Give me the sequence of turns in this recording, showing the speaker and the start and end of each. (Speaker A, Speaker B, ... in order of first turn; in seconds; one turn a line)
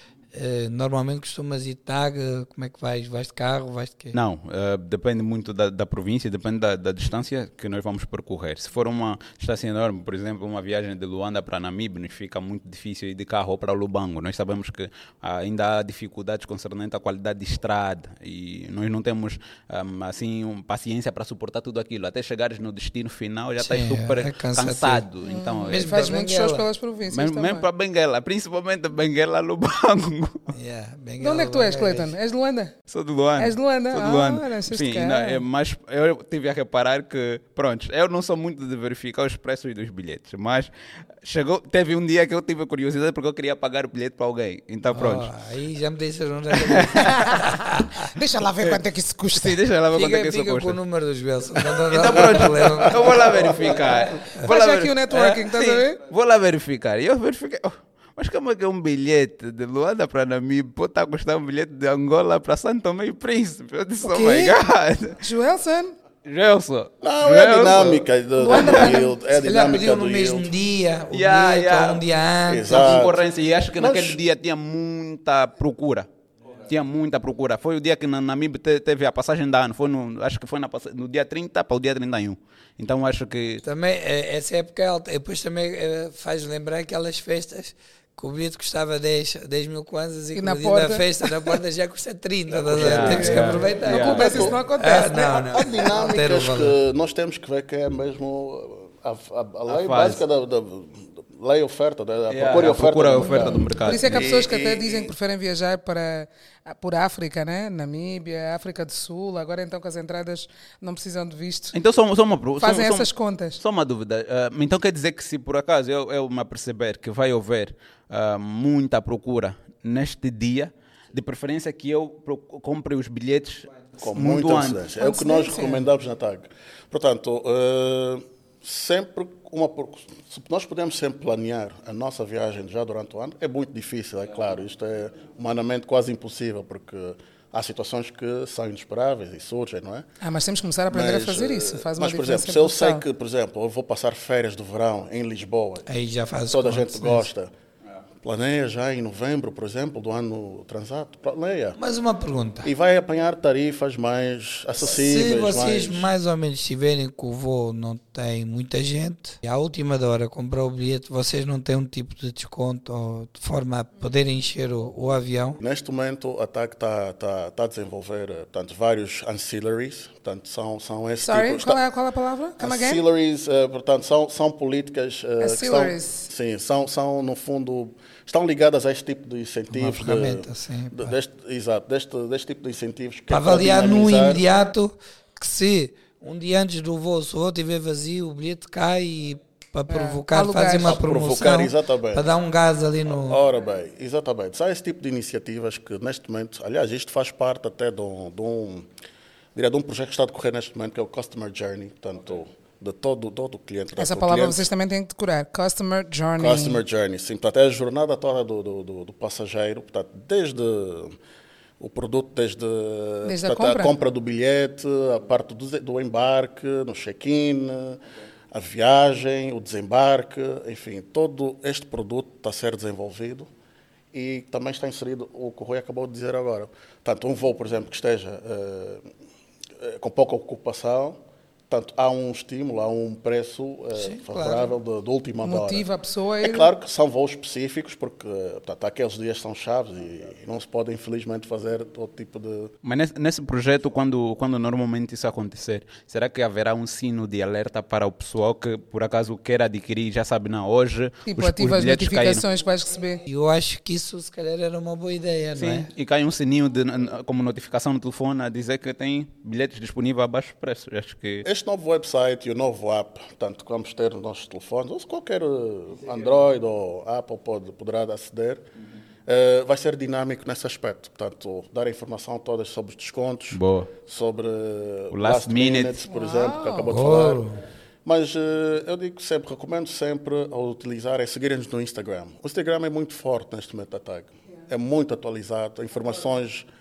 Speaker A: 0.3-4.2
Speaker B: 4.1-26.1
Speaker A: 23.6-25.0
Speaker C: 25.2-27.6
Speaker A: 25.7-26.6
Speaker B: 27.1-30.5
Speaker A: 30.5-32.1
Speaker C: 31.2-32.7
Speaker B: 32.9-40.7
Speaker C: 33.4-35.4
Speaker B: 41.2-45.3
Speaker A: 44.9-48.1
Speaker B: 46.5-47.1
Speaker C: 47.0-49.6
Speaker B: 49.3-50.8
Speaker A: 49.9-54.5
Speaker B: 51.9-65.2
Speaker C: 54.4-56.0
Speaker C: 64.0-64.6
Speaker C: 65.2-65.9
Speaker B: 66.2-68.9
Speaker D: 67.0-70.5
Speaker C: 68.4-69.2
Speaker A: 69.3-73.0
Speaker B: 71.1-72.0
Speaker D: 72.5-73.2
Speaker B: 72.7-76.1
Speaker D: 73.8-74.2
Speaker B: 76.7-83.6
Speaker A: 83.6-96.7
Speaker C: 90.3-91.6
Speaker D: 92.5-93.4
Speaker B: 92.7-94.5
Speaker C: 92.8-95.8
Speaker D: 94.2-94.5
Speaker D: 95.5-105.1
Speaker B: 99.7-100.2
Speaker B: 102.3-104.3
Speaker C: 103.2-111.7
Speaker B: 111.7-124.8
Speaker C: 112.6-113.6
Speaker D: 124.0-140.1
Speaker C: 125.0-125.8
Speaker C: 140.2-143.0
Speaker D: 140.9-145.9
Speaker A: 145.9-147.3
Speaker D: 146.5-147.5
Speaker D: 148.2-151.8
Speaker A: 151.8-152.7
Speaker D: 152.6-156.1
Speaker A: 154.8-165.6
Speaker D: 165.6-171.8
Speaker C: 171.2-173.0
Speaker D: 172.6-184.4
Speaker C: 175.4-176.3
Speaker A: 179.7-181.1
Speaker A: 183.3-193.4
Speaker C: 189.9-191.0
Speaker D: 190.8-192.3
Speaker D: 193.1-198.9
Speaker D: 199.5-204.7
Speaker C: 204.0-206.8
Speaker D: 206.4-211.2
Speaker D: 211.8-223.5
Speaker C: 213.2-213.9
Speaker D: 224.1-229.0
Speaker D: 229.8-231.2
Speaker D: 231.7-235.9
Speaker A: 233.9-234.7
Speaker C: 235.4-236.7
Speaker D: 236.4-242.7
Speaker B: 242.8-252.4
Speaker C: 251.2-253.2
Speaker A: 253.2-255.9
Speaker B: 255.6-261.4
Speaker D: 261.4-268.6
Speaker D: 269.2-277.5
Speaker B: 273.5-273.9
Speaker B: 275.1-276.0
Speaker C: 276.1-277.0
Speaker A: 276.9-277.6
Speaker D: 278.0-286.7